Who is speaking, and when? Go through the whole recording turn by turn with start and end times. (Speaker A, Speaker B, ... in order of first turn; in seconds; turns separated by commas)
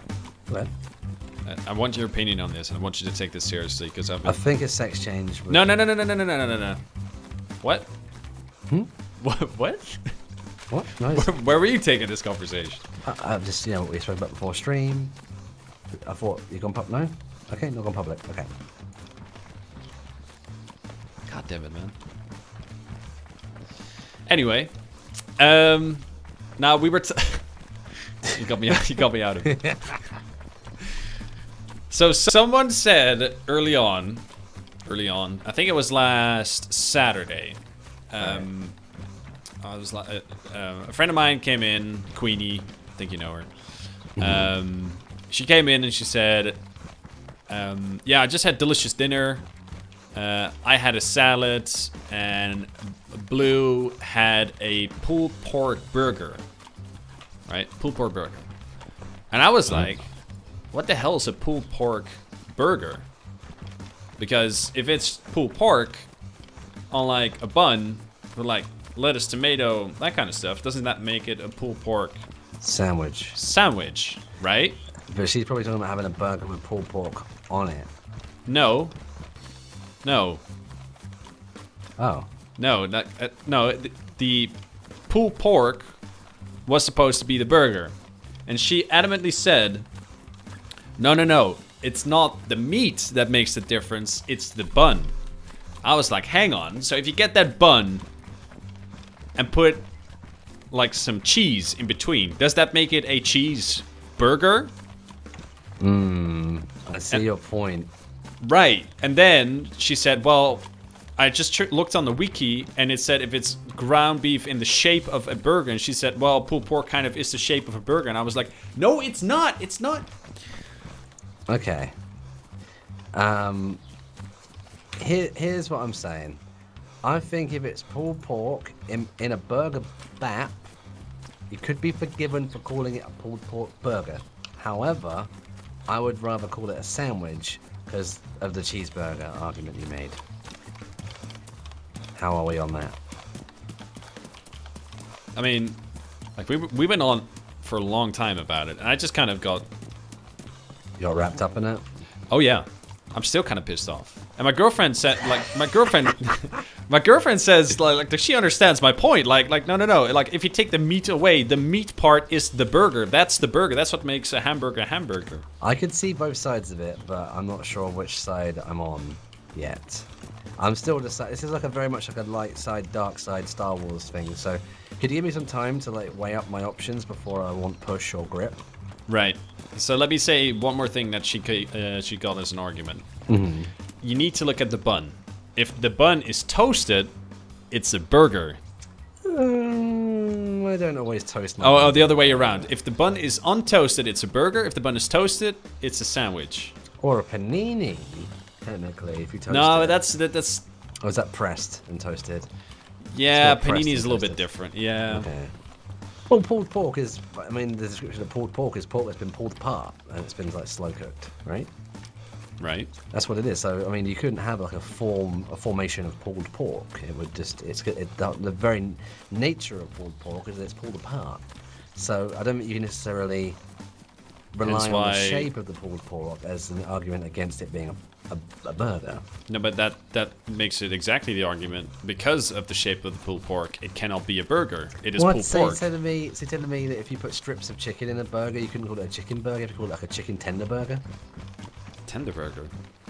Speaker A: 1.4-4.4, Speaker B: 4.2-5.7, Speaker A: 5.5-6.8, Speaker A: 7.6-7.9, Speaker A: 9.2-10.1, Speaker B: 10.7-11.3, Speaker A: 11.1-12.8, Speaker B: 13.0-15.2, Speaker B: 16.0-18.5, Speaker A: 21.2-21.9, Speaker A: 24.3-24.7, Speaker A: 25.4-26.1, Speaker A: 26.6-27.6, Speaker A: 28.2-30.0, Speaker A: 31.9-34.2, Speaker A: 34.9-37.6, Speaker A: 38.1-38.7, Speaker B: 38.2-38.5, Speaker A: 39.6-43.5, Speaker B: 44.2-44.5, Speaker A: 44.2-46.6, Speaker A: 47.5-49.4, Speaker A: 50.1-56.4, Speaker A: 57.5-58.4, Speaker A: 59.3-60.1, Speaker A: 60.7-63.0, Speaker A: 64.2-66.1, Speaker A: 66.9-72.2, Speaker B: 72.6-73.4, Speaker A: 73.3-74.8, Speaker B: 75.1-77.9, Speaker A: 78.5-78.9, Speaker A: 80.0-80.4, Speaker B: 82.0-82.3, Speaker A: 82.6-84.5, Speaker A: 85.1-86.0, Speaker A: 86.7-87.9, Speaker A: 88.5-89.9, Speaker A: 91.0-95.1, Speaker A: 95.8-98.0, Speaker A: 99.3-99.9, Speaker A: 100.7-104.7, Speaker B: 105.8-107.9, Speaker A: 108.4-120.1, Speaker B: 121.5-121.9, Speaker B: 123.1-123.8, Speaker B: 125.0-126.4, Speaker B: 127.0-130.7, Speaker B: 131.5-135.3, Speaker B: 135.9-140.2, Speaker B: 142.1-142.9, Speaker A: 145.3-145.8, Speaker A: 146.4-149.7, Speaker B: 151.0-151.8, Speaker A: 152.3-165.4, Speaker B: 165.6-178.6, Speaker A: 179.1-183.1, Speaker B: 183.3-183.7, Speaker A: 184.0-187.1, Speaker A: 187.7-188.6, Speaker B: 189.2-192.7, Speaker A: 191.6-196.7, Speaker B: 197.0-200.0, Speaker A: 199.5-200.6, Speaker B: 201.0-202.5, Speaker A: 203.1-205.3, Speaker B: 203.3-204.4, Speaker B: 205.1-205.5, Speaker B: 206.3-211.7, Speaker A: 212.6-212.9, Speaker B: 213.1-223.6, Speaker B: 224.5-229.2, Speaker A: 224.6-225.5, Speaker A: 229.5-235.8, Speaker B: 235.1-241.0, Speaker A: 242.1-242.7